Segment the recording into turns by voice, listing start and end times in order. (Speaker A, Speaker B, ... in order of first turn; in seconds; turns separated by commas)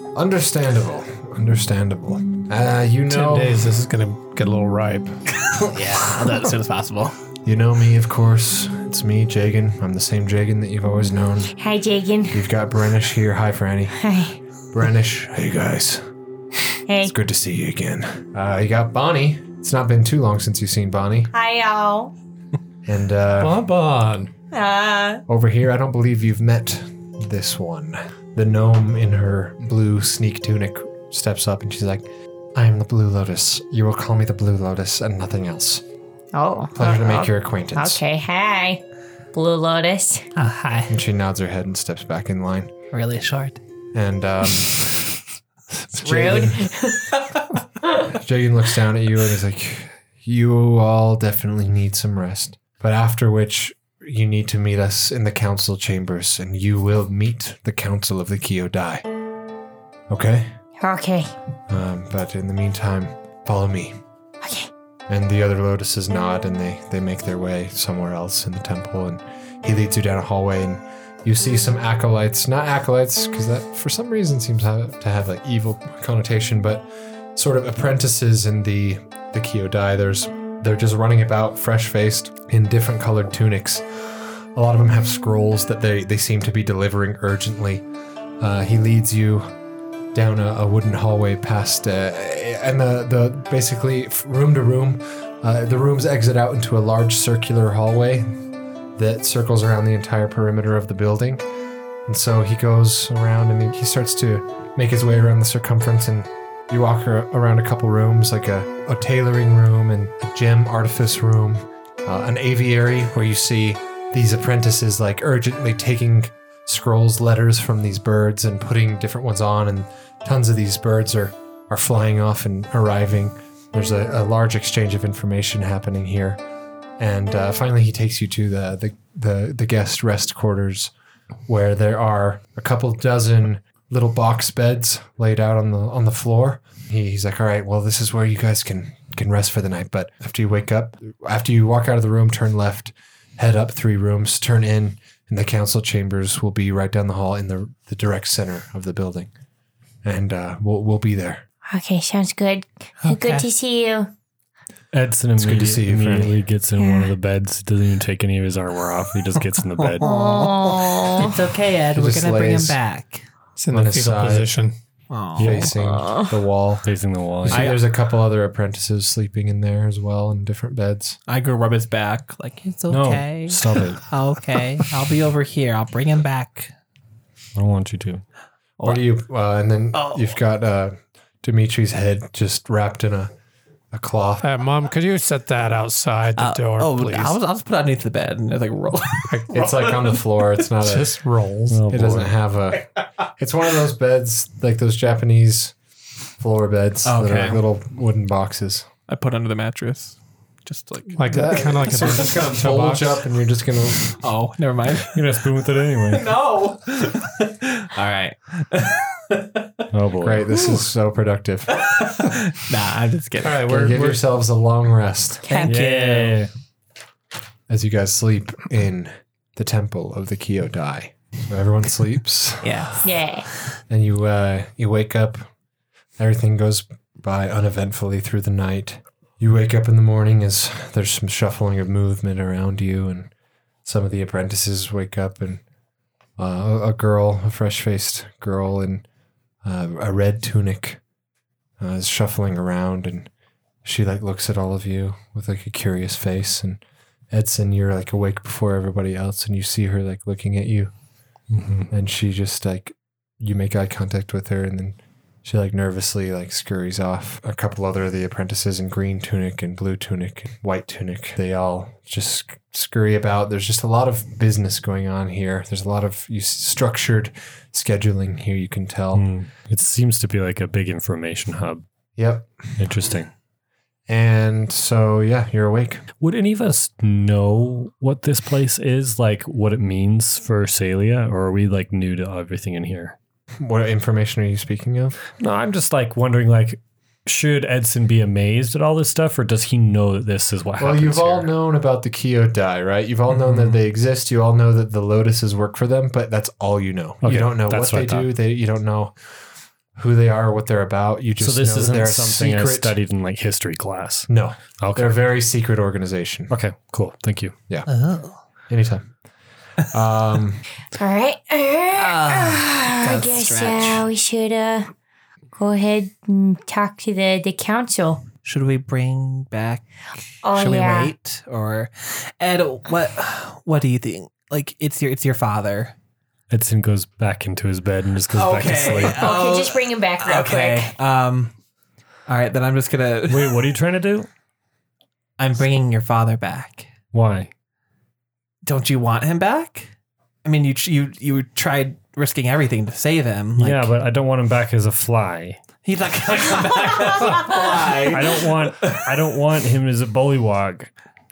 Speaker A: 0.1-3.7, Speaker B: 3.1-5.2, Speaker C: 5.4-7.2, Speaker A: 7.4-11.5, Speaker D: 11.6-12.4, Speaker A: 12.3-14.0, Speaker D: 14.0-14.4, Speaker A: 14.7-16.0, Speaker D: 16.9-17.1, Speaker A: 17.0-21.3, Speaker D: 21.3-22.1, Speaker A: 22.8-23.6, Speaker B: 23.4-24.3, Speaker D: 24.5-25.2, Speaker A: 25.3-35.8, Speaker D: 36.3-38.8, Speaker A: 36.7-38.0, Speaker D: 39.3-40.3, Speaker C: 40.3-40.9, Speaker A: 40.9-42.7, Speaker C: 42.9-43.6, Speaker A: 43.9-45.0, Speaker A: 45.8-46.7, Speaker D: 46.0-47.1, Speaker A: 48.0-59.0, Speaker A: 60.1-60.5, Speaker D: 60.8-61.3, Speaker A: 61.7-64.0, Speaker D: 64.4-64.7, Speaker A: 65.1-87.8, Speaker A: 88.4-89.5, Speaker A: 90.1-98.4, Speaker A: 99.0-101.5, Speaker A: 102.0-126.4, Speaker A: 127.0-130.9, Speaker A: 131.5-149.3, Speaker A: 150.0-151.4, Speaker D: 151.7-154.1, Speaker C: 153.0-153.5, Speaker E: 154.9-160.0, Speaker A: 155.4-156.4, Speaker D: 156.8-157.1, Speaker C: 159.8-163.3, Speaker D: 160.0-161.3, Speaker A: 161.9-162.8, Speaker B: 163.6-164.8, Speaker A: 163.7-164.5, Speaker C: 165.1-165.7, Speaker E: 165.3-165.7, Speaker A: 165.4-166.9, Speaker D: 165.8-166.3, Speaker E: 166.8-167.8, Speaker A: 167.4-171.2, Speaker C: 167.5-167.8, Speaker C: 171.3-176.7, Speaker E: 172.9-174.0, Speaker E: 177.5-178.2, Speaker A: 178.8-183.3, Speaker C: 179.9-180.4, Speaker A: 183.9-184.5, Speaker B: 184.4-187.4, Speaker C: 186.4-190.2, Speaker B: 189.3-189.6, Speaker A: 189.5-191.2, Speaker B: 190.8-191.8, Speaker E: 191.7-192.3, Speaker A: 191.9-195.7, Speaker A: 196.4-198.9, Speaker C: 197.0-197.6, Speaker C: 199.1-202.2, Speaker B: 201.1-203.2, Speaker A: 201.3-204.2, Speaker C: 204.1-205.2, Speaker E: 205.1-206.3, Speaker C: 206.1-209.8, Speaker E: 209.9-210.5, Speaker A: 210.2-211.9, Speaker C: 211.8-213.7, Speaker B: 213.4-214.2, Speaker A: 213.6-215.5, Speaker C: 215.5-216.3, Speaker D: 215.5-215.7, Speaker E: 215.6-216.5, Speaker A: 217.7-222.9, Speaker C: 222.6-223.0, Speaker D: 223.0-223.5, Speaker A: 223.9-225.4, Speaker A: 226.2-233.3, Speaker A: 233.8-235.6, Speaker A: 236.4-239.0, Speaker A: 239.6-241.0, Speaker A: 241.8-243.3, Speaker A: 243.8-250.9, Speaker E: 251.5-251.9, Speaker A: 251.9-269.2, Speaker E: 269.1-271.8, Speaker A: 272.1-272.5, Speaker E: 272.8-273.3, Speaker A: 274.1-276.0, Speaker E: 276.2-283.1, Speaker A: 283.6-285.2, Speaker E: 285.4-291.5, Speaker A: 290.8-299.1, Speaker E: 297.2-298.3, Speaker A: 299.9-302.9, Speaker E: 301.4-305.2, Speaker A: 304.3-306.5, Speaker E: 306.5-307.5, Speaker C: 307.9-308.4, Speaker A: 308.7-309.1, Speaker A: 309.9-310.6, Speaker D: 310.9-314.9, Speaker C: 311.9-314.0, Speaker D: 315.5-318.2, Speaker C: 318.4-319.9, Speaker D: 320.4-321.1, Speaker C: 320.5-325.9, Speaker E: 326.5-329.4, Speaker C: 328.4-331.5, Speaker D: 329.2-330.9, Speaker C: 332.3-333.7, Speaker E: 333.3-334.3, Speaker C: 335.4-336.9, Speaker E: 337.1-337.5, Speaker C: 338.6-339.9, Speaker C: 340.4-343.9, Speaker E: 343.6-345.6, Speaker C: 345.8-349.0, Speaker E: 347.4-350.9